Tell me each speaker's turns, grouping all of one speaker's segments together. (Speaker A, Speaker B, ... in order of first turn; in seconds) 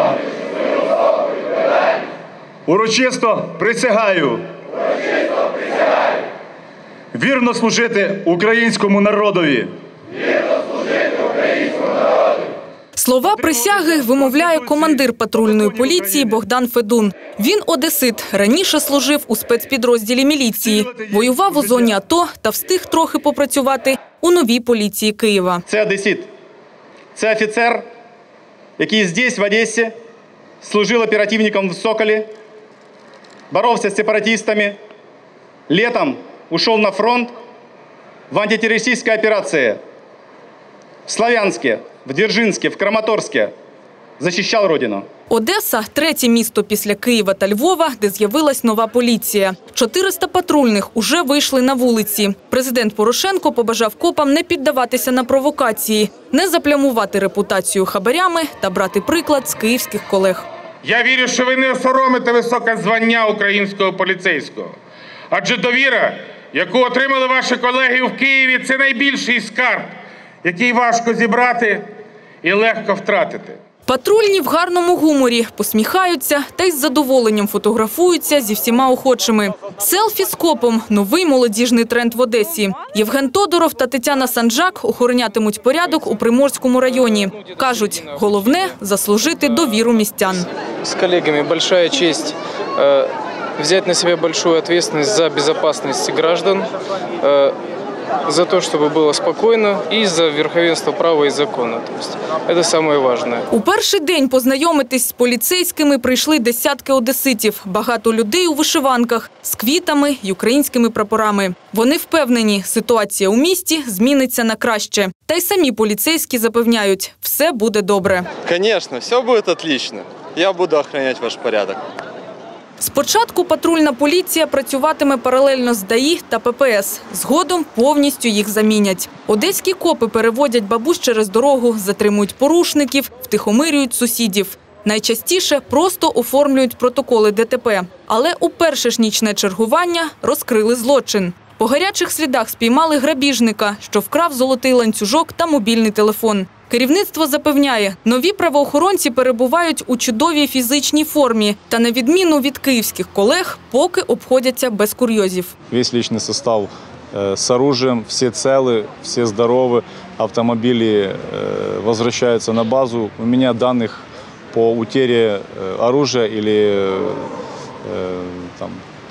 Speaker A: 2.6-4.4, 7.1-9.7, 13.4-16.3, 20.6-21.9
Speaker B: 12.9-25.6, 45.3-60.4, 73.8-90.5, 103.5-118.3, 122.8-155.5
Speaker C: 25.7-26.3, 27.1-27.9, 28.8-29.9, 30.6-32.3, 33.5-34.8, 35.7-37.3, 38.3-39.8, 41.1-43.5, 44.2-45.0
Speaker D: 60.8-64.7, 65.3-69.9, 70.4-71.9, 72.4-73.6
Speaker E: 90.8-96.7, 97.2-97.6, 98.2-103.5
Speaker F: 118.5-121.8
Speaker G: 155.7-167.3, 167.8-168.8